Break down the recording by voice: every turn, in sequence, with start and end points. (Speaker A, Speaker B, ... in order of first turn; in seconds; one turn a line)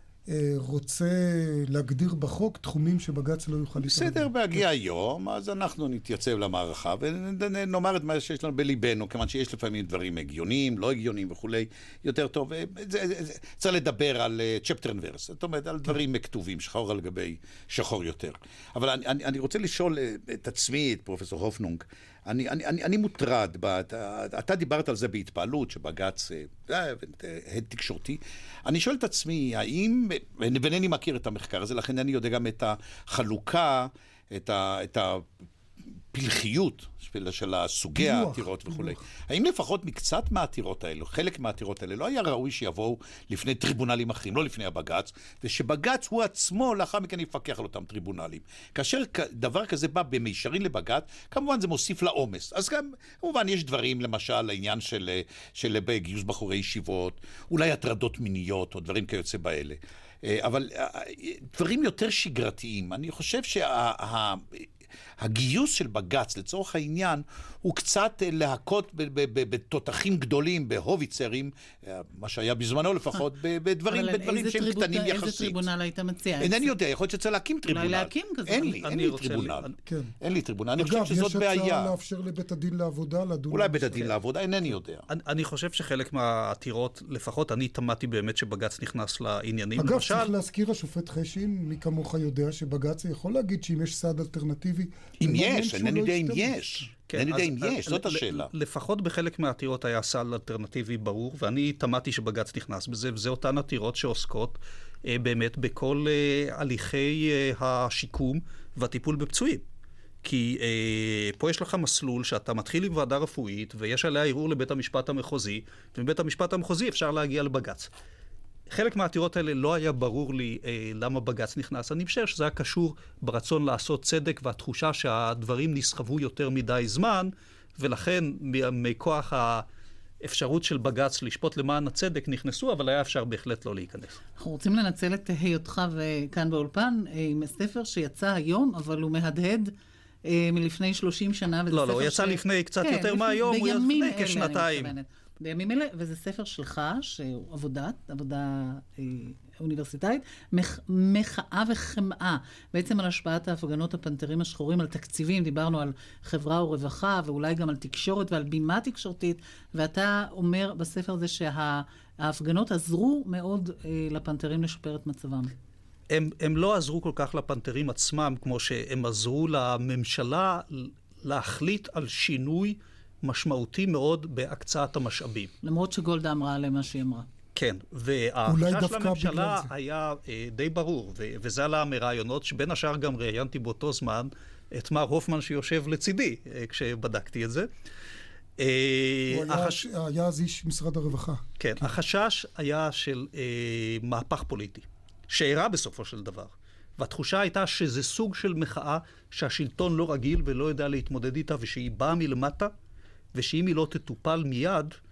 Speaker A: 0.3-4.6
Speaker B: 3.8-35.2
Speaker B: 36.1-64.7
Speaker A: 38.0-39.0
Speaker B: 65.2-75.6
Speaker C: 73.9-76.7
Speaker B: 76.4-79.7
Speaker C: 77.7-78.8
Speaker D: 78.8-79.7
Speaker A: 79.8-80.1
Speaker B: 80.2-81.9
Speaker A: 80.8-84.1
Speaker B: 83.5-85.0
Speaker D: 85.1-90.3
Speaker A: 89.8-96.9
Speaker B: 95.2-98.5
Speaker D: 97.1-109.6
Speaker D: 110.2-117.9
Speaker D: 118.7-129.7
Speaker D: 130.2-134.2
Speaker C: 134.4-139.7
Speaker C: 140.2-165.5
Speaker D: 141.7-144.9
Speaker D: 166.1-175.5
Speaker C: 175.6-177.3
Speaker D: 177.5-187.7
Speaker A: 178.4-179.7
Speaker D: 188.6-189.8
Speaker A: 189.3-191.9
Speaker D: 191.6-202.7
Speaker D: 203.3-204.9